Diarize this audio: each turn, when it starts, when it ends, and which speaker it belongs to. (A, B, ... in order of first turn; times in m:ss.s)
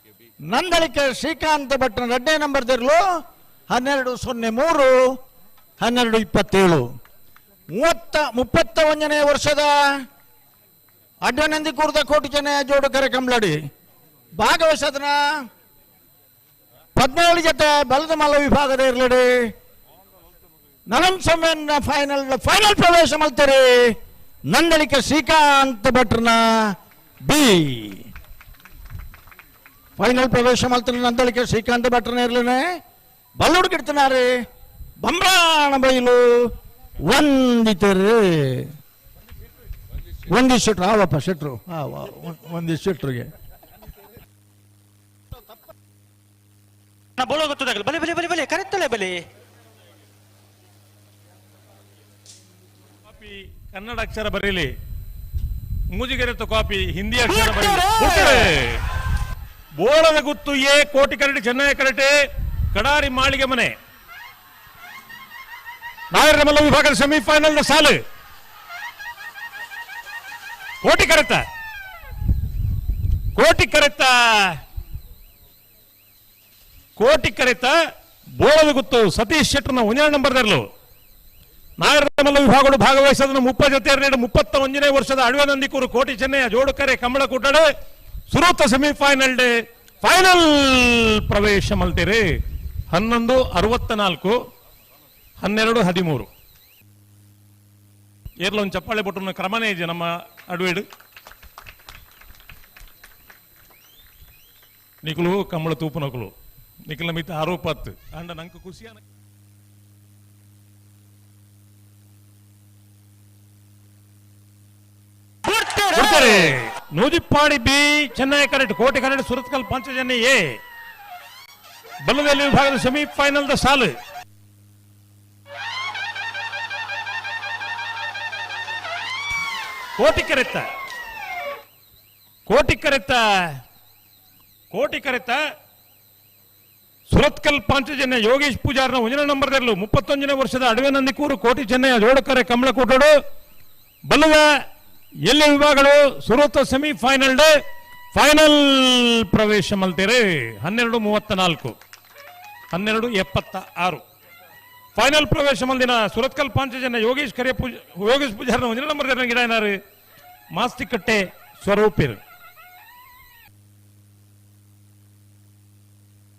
0:00.5-0:05.2 A
0:05.8-0:06.9 A
0:07.7-0:10.0 A
0:11.2-0:13.7 A
0:14.4-0:15.2 A
0:17.0-0:19.5 A
0:20.9-0:28.1 A
0:30.0-0:32.8 A
0:33.4-0:34.4 A
0:35.0-0:36.6 A
0:37.1-0:38.8 A
0:40.3-0:43.3 A
0:47.2-0:49.2 B
0:53.1-0:54.7 C
0:55.9-0:58.8 C
0:57.4-0:58.5 B
0:59.8-1:02.1 C
1:02.7-1:03.7 C
1:06.1-1:08.0 C
1:10.8-1:11.4 C
1:13.4-1:14.6 C
1:17.0-1:17.8 C
1:18.4-1:20.6 C
1:21.8-1:27.7 C
1:28.3-1:32.2 C
1:32.9-1:34.4 C
1:35.4-1:36.3 C
1:38.4-1:40.9 C
1:45.0-1:46.3 C
1:46.9-1:49.0 C
1:55.5-1:56.5 B
1:55.9-2:00.6 C
2:02.0-2:03.9 C
2:10.0-2:10.7 C
2:12.5-2:13.6 C
2:14.7-2:15.4 C
2:17.1-2:23.2 C
2:24.1-2:24.5 C
2:25.3-2:27.5 C
2:28.1-2:31.8 C
2:32.7-2:34.0 C
2:35.0-2:39.8 C
2:40.5-2:42.2 C